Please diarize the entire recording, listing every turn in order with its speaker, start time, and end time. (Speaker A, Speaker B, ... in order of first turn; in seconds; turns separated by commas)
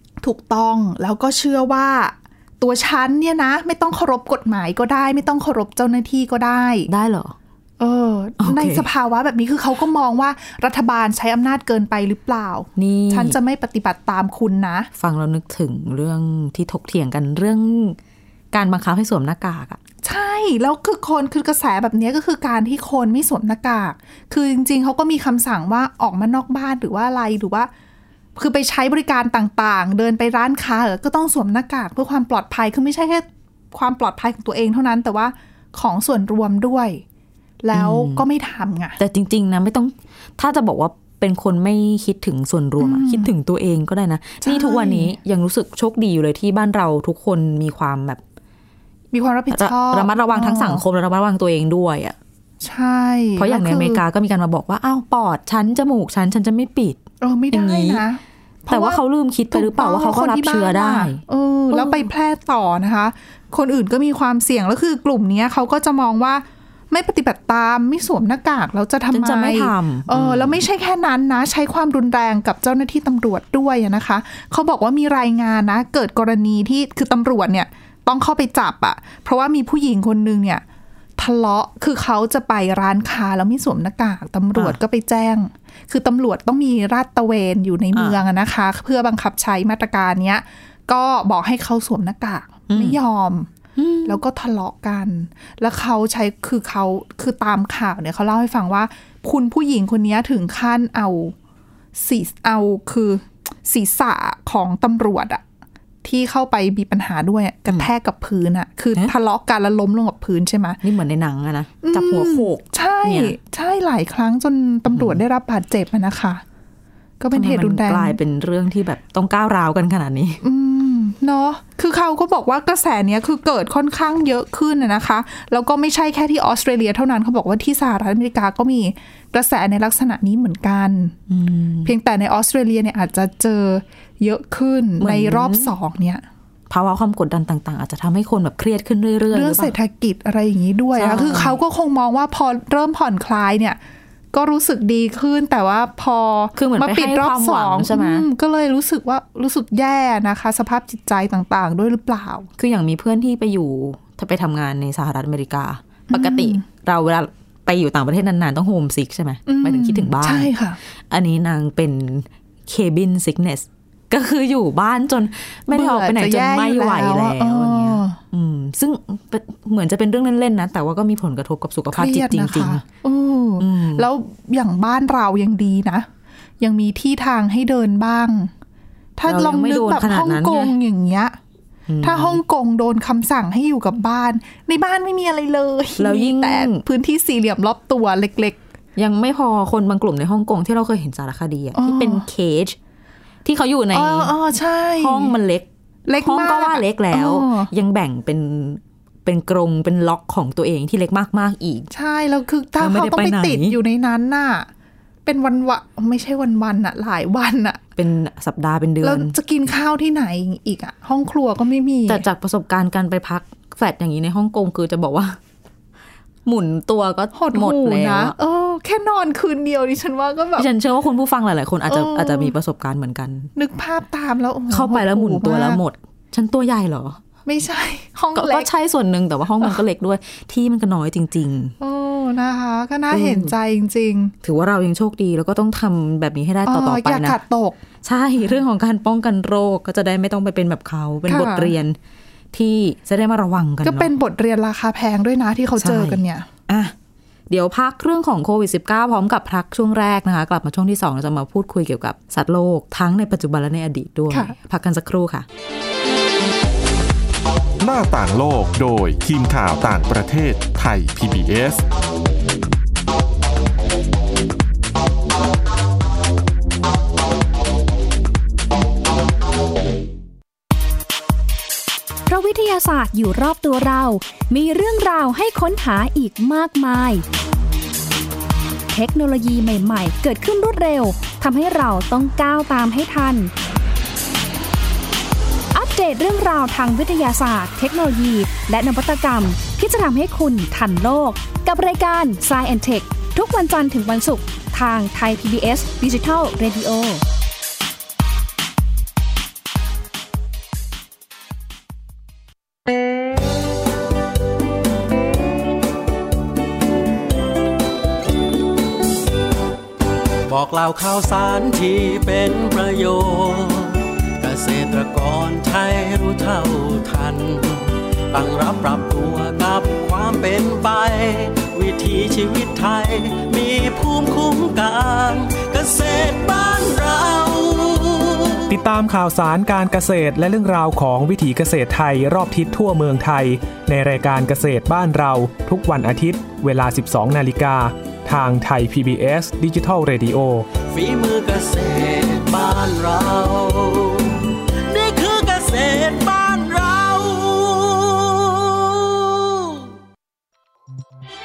Speaker A: 0.2-6.9, Speaker B: 6.9-7.3, Speaker A: 7.8-14.9, Speaker B: 8.4-8.8, Speaker B: 12.8-13.4, Speaker B: 14.9-18.0, Speaker B: 18.5-19.8, Speaker A: 20.0-27.7, Speaker A: 28.4-37.0, Speaker A: 37.6-39.0, Speaker B: 37.7-38.2, Speaker B: 39.0-48.2, Speaker A: 42.8-43.3, Speaker A: 44.4-45.1, Speaker A: 49.1-50.8, Speaker B: 49.5-52.1, Speaker A: 52.6-54.0, Speaker B: 53.4-57.0, Speaker A: 57.2-80.6, Speaker B: 57.5-58.0, Speaker B: 58.7-62.1, Speaker B: 69.1-70.6, Speaker A: 81.2-93.5, Speaker B: 87.9-88.2, Speaker B: 92.7-93.0, Speaker B: 93.8-94.2, Speaker A: 94.0-101.3, Speaker A: 102.0-105.4, Speaker A: 106.0-110.8, Speaker B: 110.8-113.3, Speaker A: 111.8-116.4, Speaker B: 114.9-115.2, Speaker A: 117.2-118.2, Speaker B: 117.3-120.4, Speaker A: 120.4-131.2, Speaker B: 131.3-131.9, Speaker A: 131.8-136.2, Speaker B: 135.0-135.7, Speaker B: 136.7-139.7, Speaker A: 139.3-143.8, Speaker B: 140.9-141.6, Speaker A: 144.3-152.5, Speaker B: 146.6-148.2, Speaker B: 152.6-160.5, Speaker A: 156.1-156.6, Speaker A: 159.5-160.8, Speaker B: 161.1-172.8, Speaker A: 165.7-168.2, Speaker A: 171.9-176.1, Speaker B: 173.6-174.1, Speaker A: 176.6-178.5, Speaker A: 179.2-181.3, Speaker B: 179.2-180.7, Speaker B: 181.9-182.4, Speaker A: 182.0-188.6, Speaker B: 186.0-186.8, Speaker B: 188.9-192.8, Speaker A: 191.7-192.2, Speaker B: 193.4-194.3, Speaker A: 193.9-195.3, Speaker B: 195.0-201.9, Speaker A: 196.1-197.7, Speaker A: 201.9-204.7, Speaker B: 202.8-203.8, Speaker A: 205.2-207.8, Speaker B: 207.9-209.3, Speaker A: 209.0-212.2, Speaker B: 212.1-215.4, Speaker B: 216.4-218.3, Speaker A: 217.3-220.7, Speaker B: 220.6-223.5, Speaker A: 221.9-222.5, Speaker A: 223.6-225.8, Speaker B: 224.7-227.2, Speaker A: 227.4-228.7, Speaker B: 228.3-231.7, Speaker A: 231.8-234.3, Speaker B: 233.1-233.5, Speaker B: 234.4-237.4, Speaker A: 236.7-237.8, Speaker B: 238.0-242.0, Speaker A: 241.3-241.7, Speaker B: 242.5-244.1, Speaker A: 243.8-246.5, Speaker B: 245.8-246.9, Speaker B: 247.5-255.5, Speaker A: 254.3-254.5, Speaker C: 257.8-261.8, Speaker D: 272.3-277.2, Speaker D: 278.9-283.5, Speaker D: 285.7-297.2, Speaker E: 310.5-328.7, Speaker F: 328.7-340.7, Speaker E: 340.9-349.8